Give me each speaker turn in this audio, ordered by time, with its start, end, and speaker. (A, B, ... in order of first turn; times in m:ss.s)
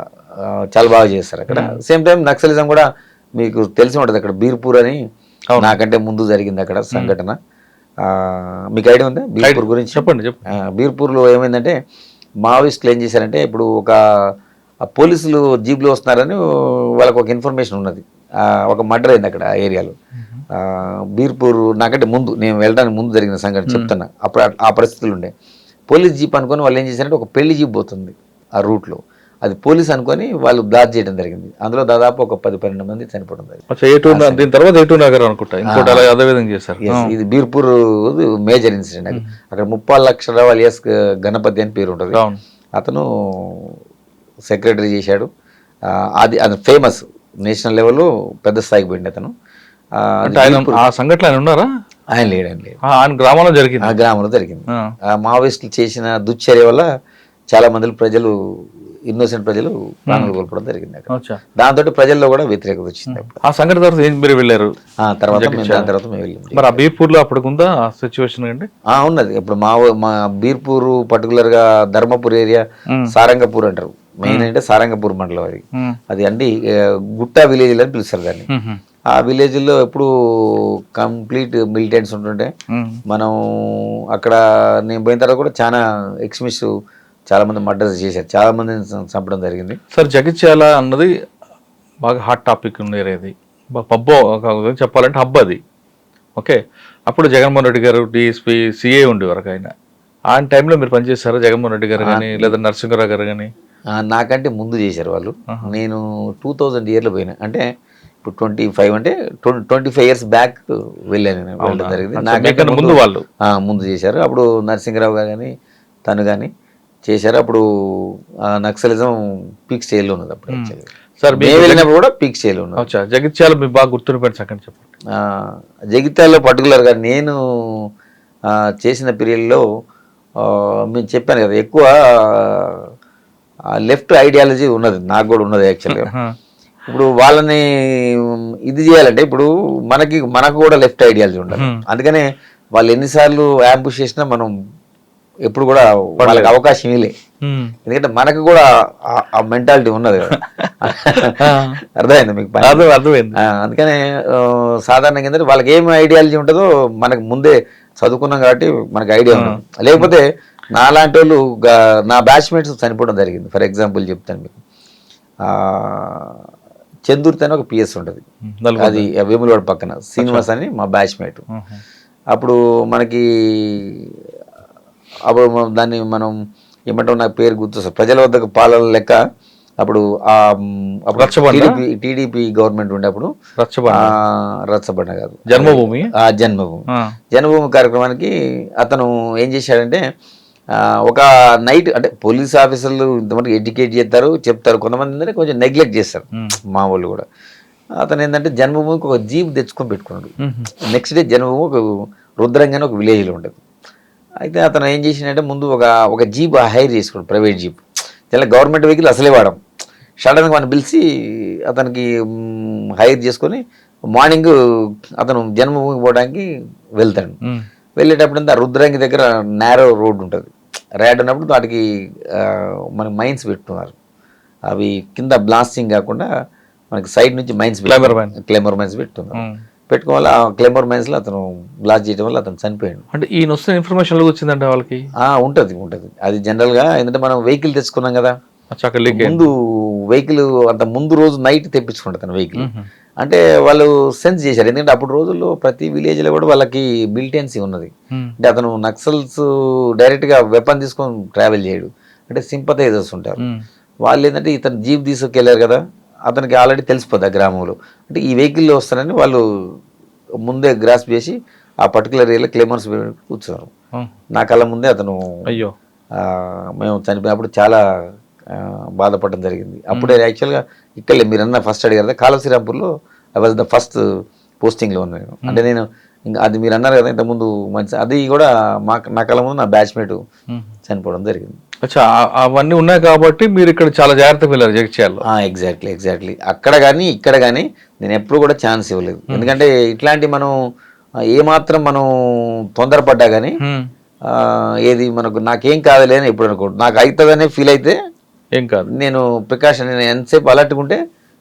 0:00.4-0:02.8 A
0:01.5-0:01.8 B
0:03.4-0:05.0 A
0:05.6-0:07.4 A
0:08.0-0:11.8 A
0:09.4-0:10.4 B
0:12.4-0:14.0 A
0:14.9-0:20.0 A
0:20.5-0:25.3 A
0:25.9-0:34.5 A
0:33.7-0:37.1 B
0:35.7-0:36.1 A
0:36.8-0:42.2 A
0:42.1-0:42.4 B
0:42.8-0:43.8 A
0:44.5-0:45.3 A
0:45.9-0:49.3 A
0:50.0-0:50.8 A
0:50.3-0:51.7 B
0:52.1-0:52.8 A
0:52.8-0:54.0 B
0:53.8-0:56.9 A
0:57.5-0:58.3 A
0:59.1-1:03.3 A
1:01.1-1:01.4 B
1:03.1-1:04.7 B
1:05.0-1:06.8 A
1:05.3-1:05.9 B
1:06.5-1:08.7 B
1:08.9-1:18.5 A
1:18.5-1:18.8 B
1:19.1-1:22.5 A
1:22.7-1:23.0 B
1:23.1-1:26.7 A
1:27.3-1:29.8 A
1:29.9-1:31.1 B
1:32.0-1:35.6 B
1:36.4-1:39.7 B
1:40.3-1:43.5 B
1:42.0-1:42.6 A
1:43.9-1:47.6 A
1:48.2-1:55.5 A
1:51.6-1:53.2 B
1:56.1-1:56.5 A
1:57.1-1:59.2 A
1:59.7-2:02.9 A
2:00.5-2:01.9 B
2:02.8-2:04.9 B
2:05.2-2:07.9 A
2:08.5-2:09.6 A
2:10.4-2:12.8 A
2:13.8-2:16.1 A
2:15.9-2:16.3 B
2:16.9-2:22.2 A
2:21.5-2:21.8 B
2:22.8-2:24.5 A
2:25.5-2:27.1 A
2:26.2-2:26.6 B
2:27.4-2:27.7 B
2:27.9-2:44.6 A
2:30.3-2:30.7 B
2:31.4-2:31.8 B
2:32.6-2:33.4 B
2:39.3-2:40.1 B
2:45.4-2:46.4 A
2:47.1-2:48.2 A
2:48.5-2:49.1 B
2:48.8-2:51.4 A
2:50.2-2:50.5 B
2:51.5-2:51.8 B
2:52.3-2:54.1 A
2:55.3-2:56.3 A
2:56.9-2:59.2 A
2:59.8-3:03.3 A
3:01.2-3:01.8 B
3:03.6-3:04.2 B
3:03.9-3:10.0 A
3:05.5-3:06.1 B
3:10.8-3:17.2 A
3:18.0-3:21.8 A
3:20.4-3:20.7 B
3:22.4-3:23.6 A
3:24.4-3:29.6 A
3:30.2-3:33.6 A
3:34.1-3:34.5 A
3:35.2-3:36.5 A
3:37.0-3:37.4 A
3:38.0-3:43.9 A
3:44.7-3:46.3 A
3:46.9-3:53.0 A
3:47.9-3:48.3 B
3:49.4-3:49.6 B
3:53.1-3:55.0 B
3:55.2-3:58.4 A
3:58.7-3:59.4 B
3:59.1-4:13.4 A
4:02.6-4:02.9 B
4:14.1-4:19.7 A
4:20.4-4:23.7 A
4:24.3-4:25.2 A
4:25.5-4:25.7 B
4:26.2-4:27.8 A
4:28.5-4:34.0 A
4:29.9-4:30.2 B
4:34.6-4:40.2 A
4:40.9-4:41.6 A
4:41.8-4:45.2 B
4:45.2-4:50.5 A
4:51.3-4:53.6 A
4:53.6-4:53.9 B
4:54.3-4:58.0 A
4:58.6-4:58.9 B
4:58.9-5:01.0 A